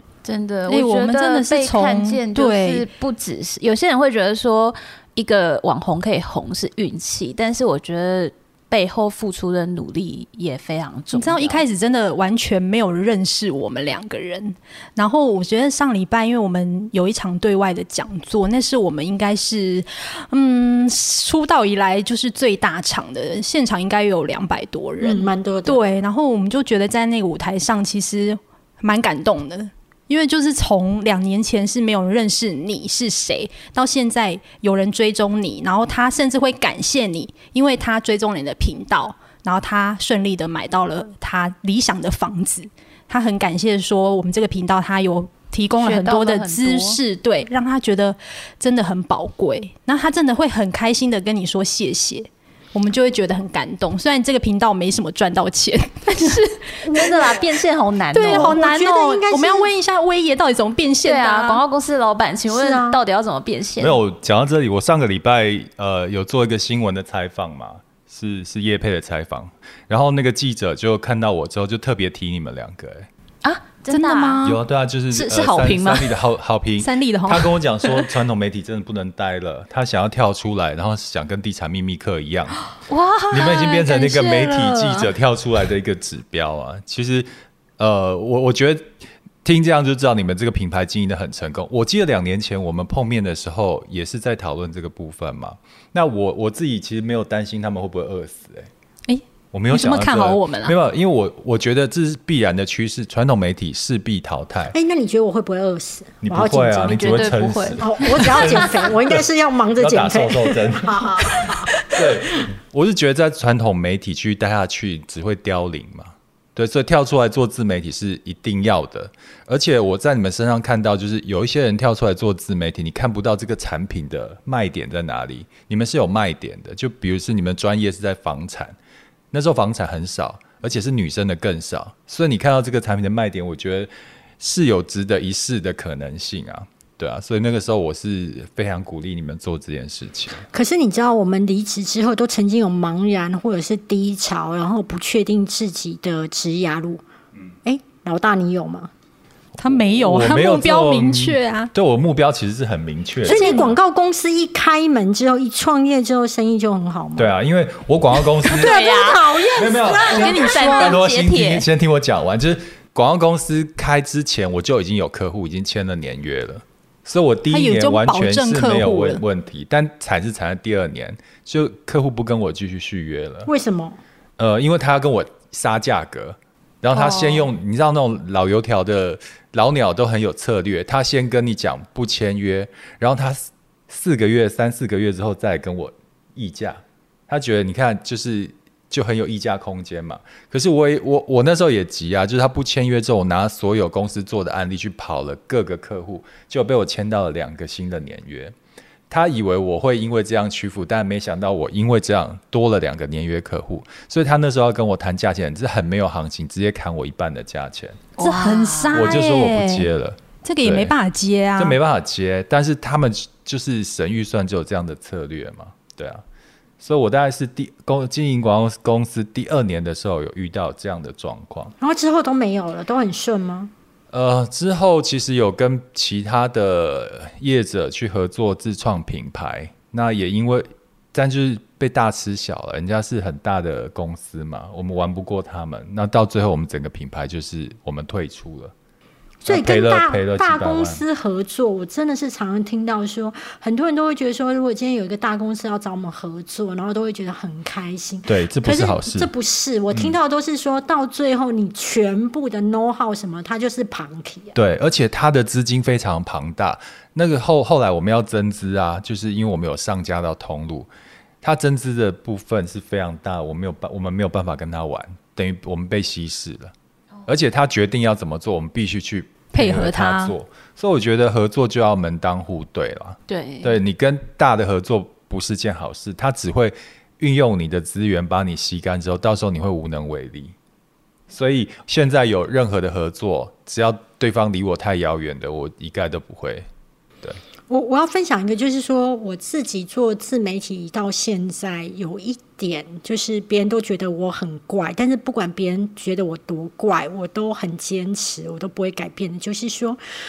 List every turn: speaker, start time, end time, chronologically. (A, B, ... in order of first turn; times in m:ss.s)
0:00.2-0:11.6 A
0:00.7-0:02.8 B
0:11.1-0:57.1 B
0:25.0-0:25.8 C
0:45.8-0:47.0 A
0:56.2-0:58.6 A
0:56.9-0:57.3 C
0:58.1-1:01.6 B
0:58.2-0:59.7 C
1:01.0-1:04.0 A
1:02.5-1:03.0 C
1:03.8-1:13.1 D
1:13.4-1:14.5 A
1:13.9-1:14.6 B
1:14.4-1:22.6 D
1:15.1-1:16.2 A
1:16.8-1:17.6 B
1:22.9-1:25.1 A
1:23.3-1:38.7 D
1:39.1-1:40.8 B
1:39.5-1:44.8 D
1:44.7-1:51.6 C
1:46.2-1:49.2 D
1:46.8-1:48.9 A
1:49.8-2:08.8 D
2:09.3-2:20.5 D
2:20.5-2:27.0 C
2:27.6-2:28.9 C
2:29.6-2:31.7 B
2:29.7-2:33.7 D
2:33.2-2:37.3 C
2:33.3-2:33.6 B
2:37.2-2:38.8 D
2:38.4-2:41.7 A
2:38.5-2:40.9 C
2:39.6-2:53.5 D
2:40.2-2:40.8 B
2:47.5-2:49.2 B
2:53.5-2:54.0 C
2:54.4-3:18.6 D
3:19.1-3:28.0 D
3:28.2-3:29.2 A
3:28.2-3:29.9 B
3:28.9-3:30.9 D
3:30.4-3:31.8 B
3:31.6-3:36.2 D
3:36.8-3:41.7 D
3:41.8-3:43.7 C
3:44.1-3:58.7 D
3:59.4-4:14.5 C
3:59.5-4:01.0 D
4:08.3-4:09.3 D
4:14.6-4:20.9 D
4:21.4-4:26.7 D
4:27.3-4:40.5 D
4:29.5-4:30.4 B
4:33.3-4:33.8 A
4:41.3-4:46.7 D
4:47.7-5:00.0 C